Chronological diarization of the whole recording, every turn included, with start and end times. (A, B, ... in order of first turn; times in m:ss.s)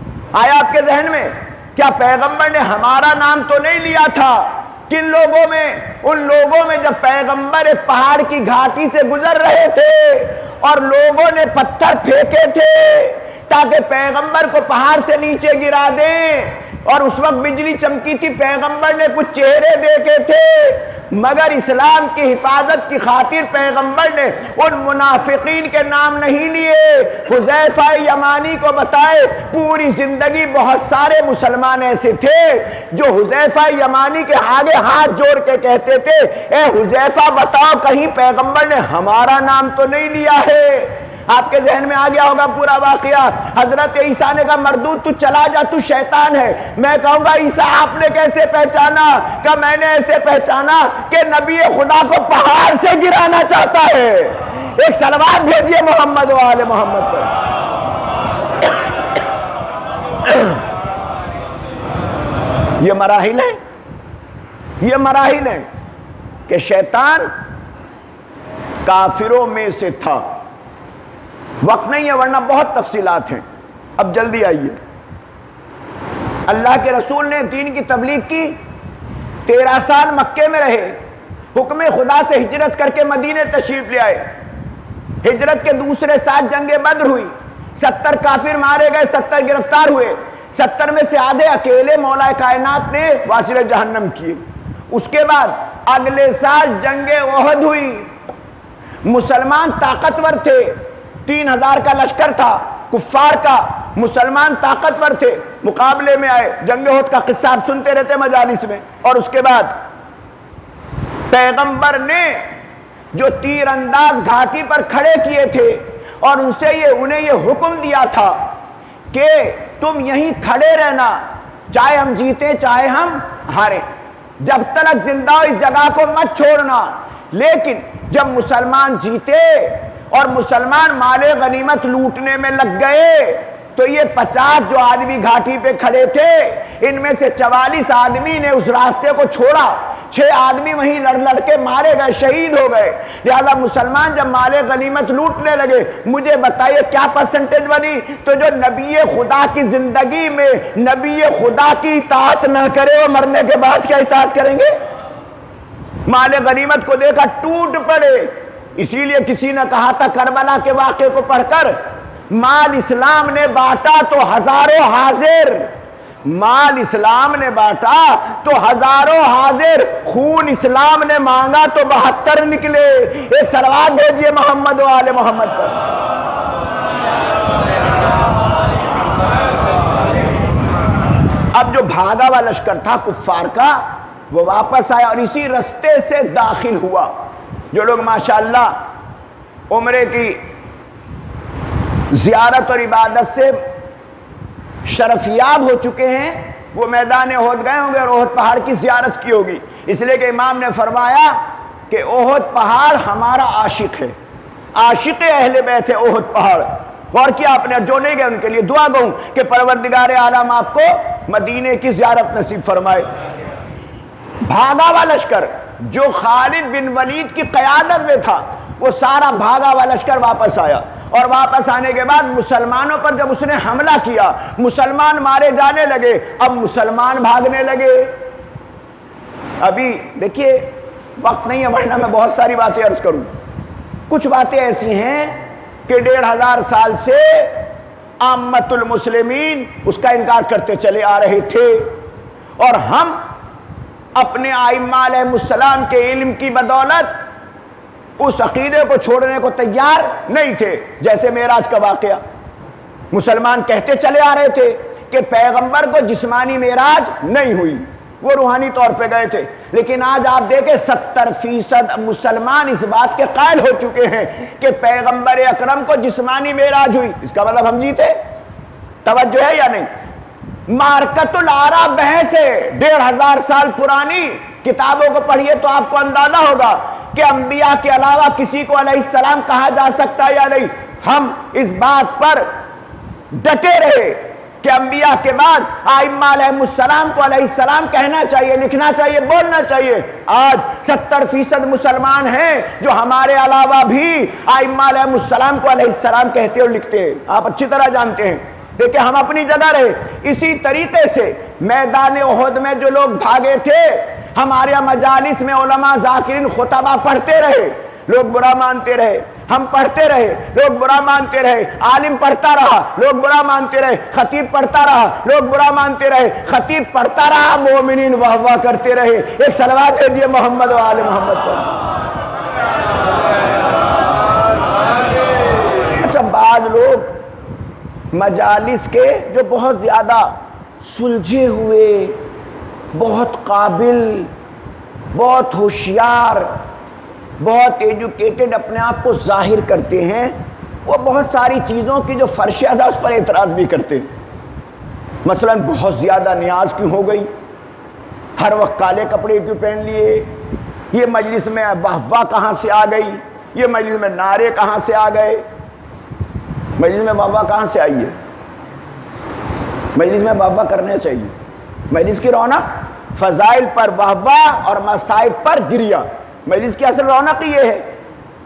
0:00.3-0:57.3 A
1:02.8-1:03.6 A
1:04.8-1:05.7 A
1:06.5-1:07.3 A
1:08.9-1:10.3 A
1:11.6-1:13.4 A
1:14.0-1:14.8 A
1:16.5-1:18.6 A
1:19.5-1:21.0 A
1:21.6-1:24.2 A
1:25.2-1:34.4 A
1:34.9-1:38.1 A
1:39.0-1:49.8 A
1:51.3-1:52.5 A
1:53.1-1:58.4 A
1:59.1-2:03.8 A
2:04.4-2:34.7 A
2:36.1-2:41.8 A
2:42.3-2:45.7 A
2:46.2-2:55.8 A
3:01.5-3:07.1 A
3:07.7-3:08.8 A
3:09.7-3:10.4 A
3:12.1-3:13.6 A
3:14.9-3:21.4 A
3:21.9-3:24.1 A
3:24.8-3:33.1 A
3:34.4-3:48.1 A
3:49.6-3:53.3 A
3:54.1-3:57.6 A
3:58.2-4:02.0 A
4:02.6-4:03.2 A
4:04.2-4:07.2 A
4:08.2-4:12.2 A
4:13.1-4:28.2 A
4:29.0-4:29.9 A
4:30.7-4:42.5 A
4:43.3-5:21.6 A
5:26.0-5:27.2 A
5:28.1-5:32.2 A
5:32.9-5:34.3 A
5:35.1-5:36.5 A
5:37.4-5:40.4 A
5:40.9-5:44.1 A
5:45.2-5:47.3 A
5:48.4-5:50.3 A
5:50.9-5:55.4 A
5:56.8-5:58.2 A
6:00.0-6:01.4 A
6:01.9-6:07.8 A